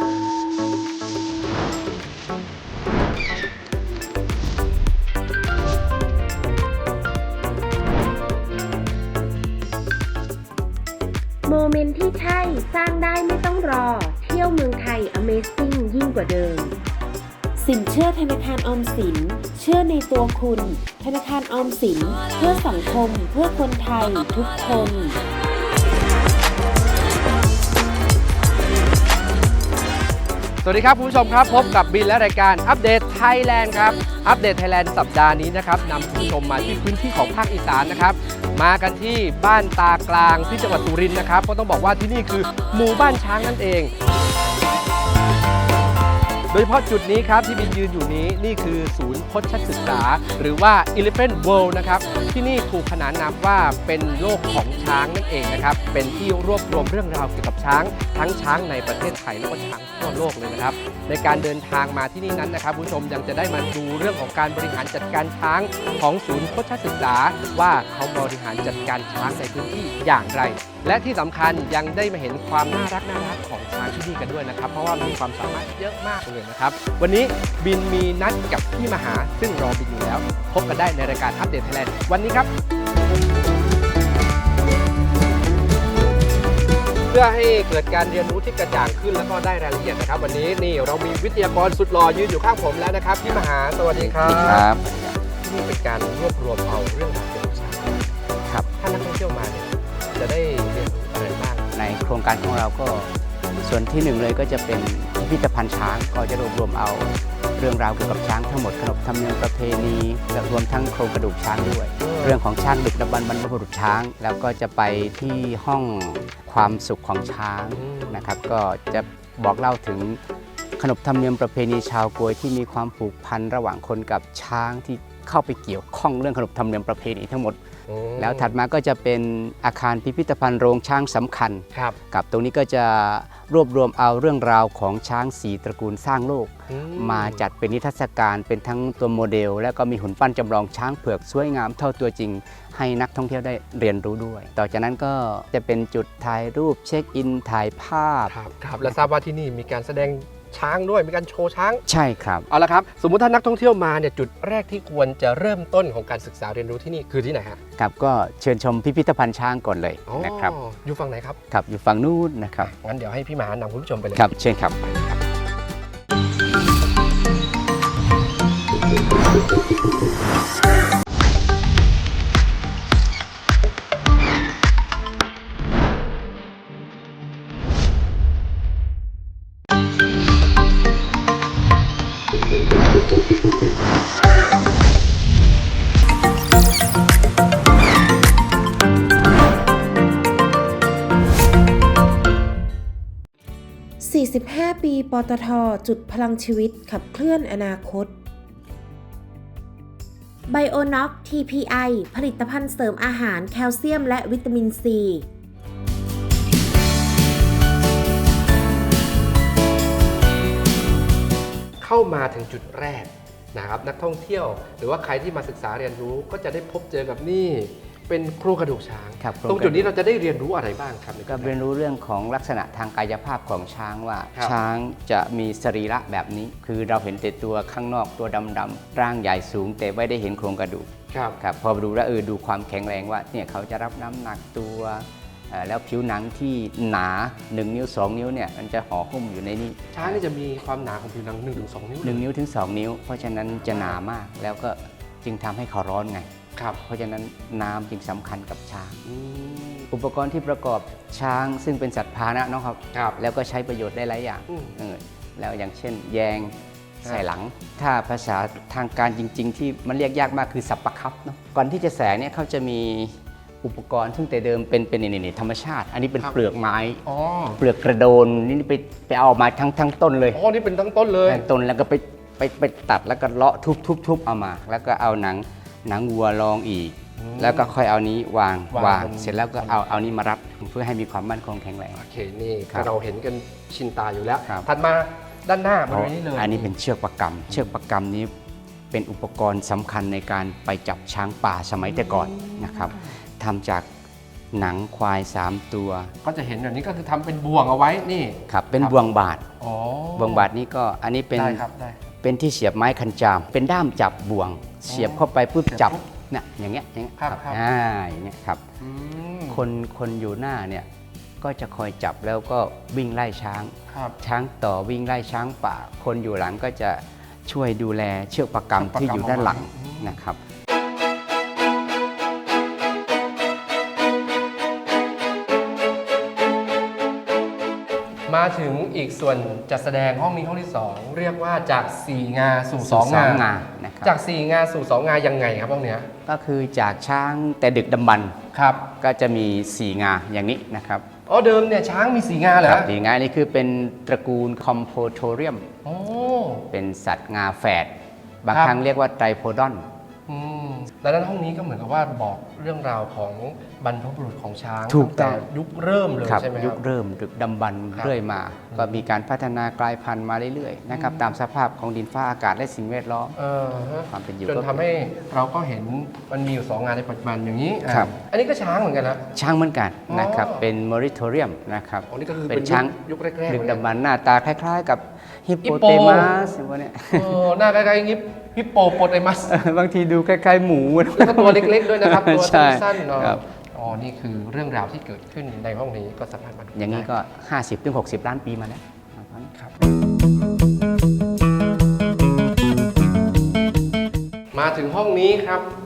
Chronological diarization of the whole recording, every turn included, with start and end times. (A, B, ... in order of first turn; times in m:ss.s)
0:11.4-0:16.8 A
0:17.6-0:25.2 A
0:30.6-0:43.9 B
0:46.5-1:22.5 B
1:27.1-1:34.7 B
1:33.2-1:35.2 C
1:35.4-1:38.1 B
1:38.8-1:41.7 B
1:41.7-1:43.1 C
1:43.6-2:00.2 C
1:52.0-1:52.4 B
1:57.7-1:58.2 B
2:00.8-2:07.6 C
2:07.9-2:08.5 B
2:08.2-2:29.0 C
2:16.7-2:17.5 B
2:28.3-2:31.8 B
2:31.8-2:32.5 C
2:32.5-2:37.6 B
2:37.8-2:40.5 C
2:40.1-2:41.4 B
2:41.5-2:42.7 C
2:42.6-2:44.3 B
2:44.1-2:44.8 C
3:14.0-3:18.1 A
3:20.5-3:25.2 A
3:31.8-3:41.5 B
3:39.2-3:39.9 C
3:41.3-3:50.9 C
3:51.1-3:51.4 B
3:51.4-4:00.2 C
3:59.9-4:02.2 B
4:02.0-4:06.3 C
4:03.6-4:04.0 B
4:06.8-4:09.0 C
4:09.0-4:09.9 B
4:09.9-4:27.0 C
4:12.9-4:13.2 B
4:14.5-4:14.8 B
4:27.0-4:27.6 B
4:27.6-4:30.4 C
4:30.3-4:31.5 B
4:31.2-4:42.0 C
4:37.2-4:37.7 B
4:38.7-4:39.8 B
4:41.9-4:46.7 B
4:45.9-4:48.3 C
4:48.9-4:53.9 C
4:51.8-4:53.1 B
4:54.5-4:56.1 C
4:56.2-4:59.0 B
4:58.5-4:59.4 C
4:59.6-5:00.5 B
5:00.2-5:01.6 C
5:01.3-5:02.0 B
5:02.2-5:08.6 C
5:04.9-5:06.0 B
5:07.2-5:07.6 B
5:08.8-5:09.6 B
5:09.5-5:10.9 C
5:11.4-5:20.4 C
5:13.9-5:14.2 B
5:18.8-5:20.2 B
5:28.3-5:33.4 B
5:32.8-5:34.2 C
5:34.0-5:36.1 B
5:36.2-5:38.4 C
5:38.5-5:38.9 B
5:39.0-5:41.0 C
5:41.3-5:42.9 B
5:42.6-5:45.7 C
5:45.8-5:46.7 B
5:46.7-5:47.9 C
5:48.4-5:49.8 C
5:48.5-5:48.8 B
5:50.3-5:56.8 B
5:54.9-5:55.4 C
5:56.2-6:03.4 C
5:58.7-5:59.0 B
6:00.9-6:01.3 B
6:03.4-6:09.2 B
6:04.1-6:04.9 C
6:09.3-6:12.9 C
6:10.1-6:10.6 B
6:12.1-6:13.8 B
6:13.5-6:17.4 C
6:15.6-6:16.4 B
6:17.1-6:19.6 B
6:19.5-6:23.4 C
6:21.0-6:27.1 B
6:26.7-6:29.5 C
6:34.5-6:35.7 B